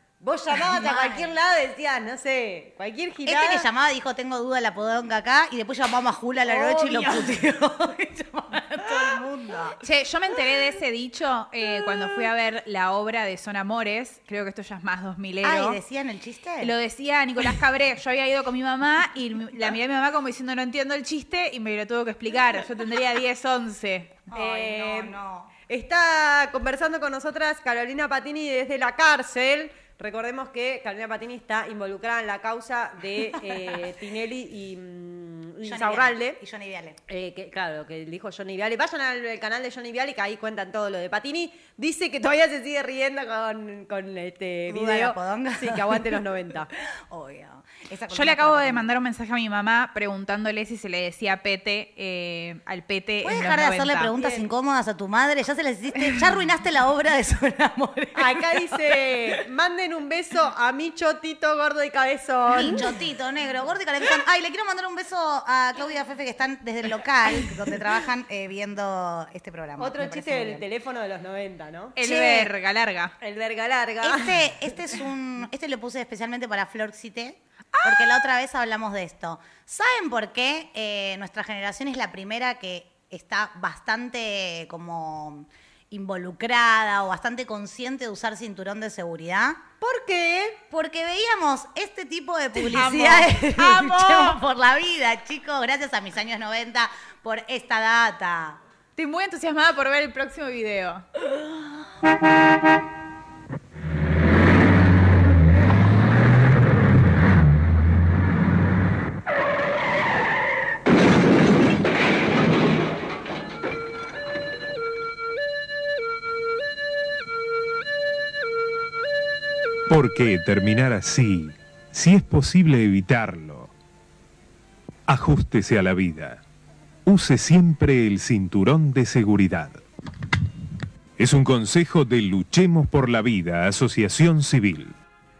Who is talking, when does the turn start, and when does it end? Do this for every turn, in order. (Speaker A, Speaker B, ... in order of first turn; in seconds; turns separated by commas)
Speaker A: 0.2-3.7, Speaker B: 0.5-1.3, Speaker B: 3.2-9.8, Speaker A: 6.5-7.4, Speaker C: 9.8-15.8, Speaker B: 15.4-16.8, Speaker C: 16.6-24.2, Speaker B: 24.3-25.5, Speaker A: 24.3-25.2, Speaker A: 25.7-36.4, Speaker B: 35.6-37.0, Speaker A: 37.1-46.7, Speaker B: 44.7-46.2, Speaker B: 47.1-48.9, Speaker C: 48.1-54.1, Speaker B: 53.2-59.3, Speaker A: 54.2-54.5, Speaker A: 58.2-62.9, Speaker B: 62.5-70.6, Speaker A: 69.8-72.0, Speaker C: 72.0-73.1, Speaker B: 72.0-72.5, Speaker A: 73.2-74.7, Speaker B: 74.0-89.6, Speaker A: 89.8-90.6, Speaker B: 90.7-98.6, Speaker C: 92.8-94.2, Speaker C: 99.0-101.0, Speaker D: 119.9-123.7, Speaker D: 125.1-126.4, Speaker D: 127.0-129.8, Speaker D: 131.2-134.9